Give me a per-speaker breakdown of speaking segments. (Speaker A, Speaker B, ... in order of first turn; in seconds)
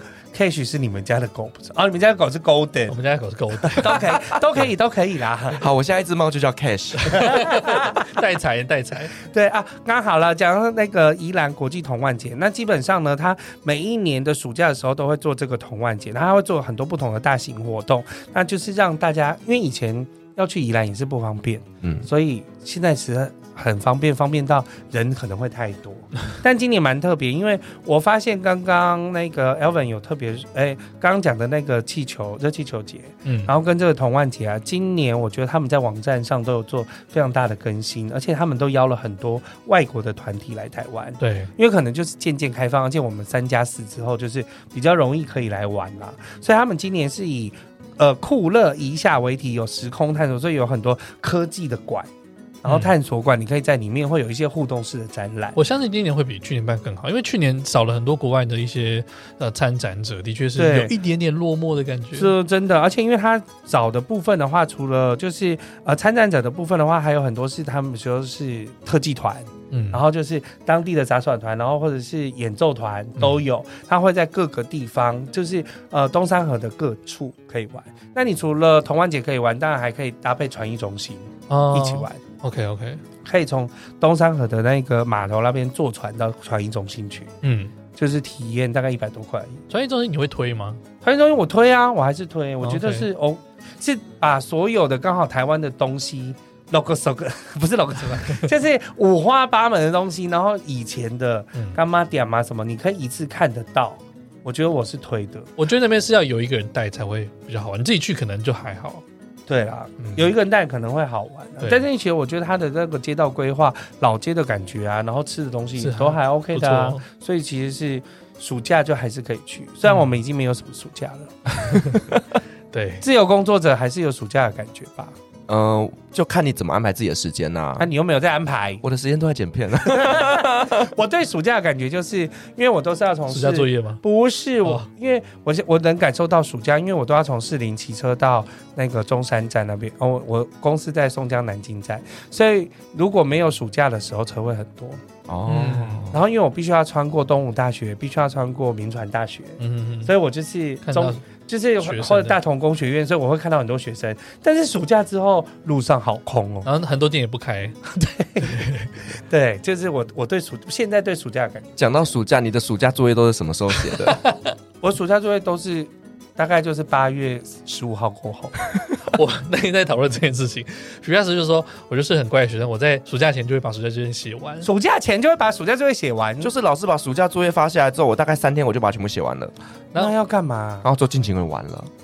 Speaker A: 0.3-2.9, 3.6-5.6, 7.1-8.1, 9.2-52.1, 52.6-55.6, 60.6-60.9, 62.1-82.2, 83.2-87.3, 87.9-89.6, 91.0-105.5, 109.5-122.0, 123.0-125.1, 127.8-128.8, 129.8-145.0, 146.1-156.7, 157.9-158.6, 159.3-161.9, 164.8-168.6, 174.6-176.5, 179.9-180.9
Speaker B: 2.9-4.7, 7.0-9.1, 33.2-33.5, 41.2-41.5, 52.6-52.9, 55.5-62.3, 69.7-70.0, 81.5-83.0, 87.4-87.7, 89.7-90.8, 92.6-93.1, 105.6-109.0, 110.0-110.3, 115.8-117.0, 119.9-120.2, 121.5-122.0, 122.7-123.0, 133.3-134.0, 145.4-146.1, 149.6-150.1, 150.8-151.2, 151.8-152.4, 156.6-157.8, 158.4-158.9, 164.0-164.5, 169.0-174.7
Speaker C: 5.6-7.3, 125.5-127.9, 128.8-130.9, 145.3-146.2, 161.8-164.2, 176.4-179.5, 180.8-181.9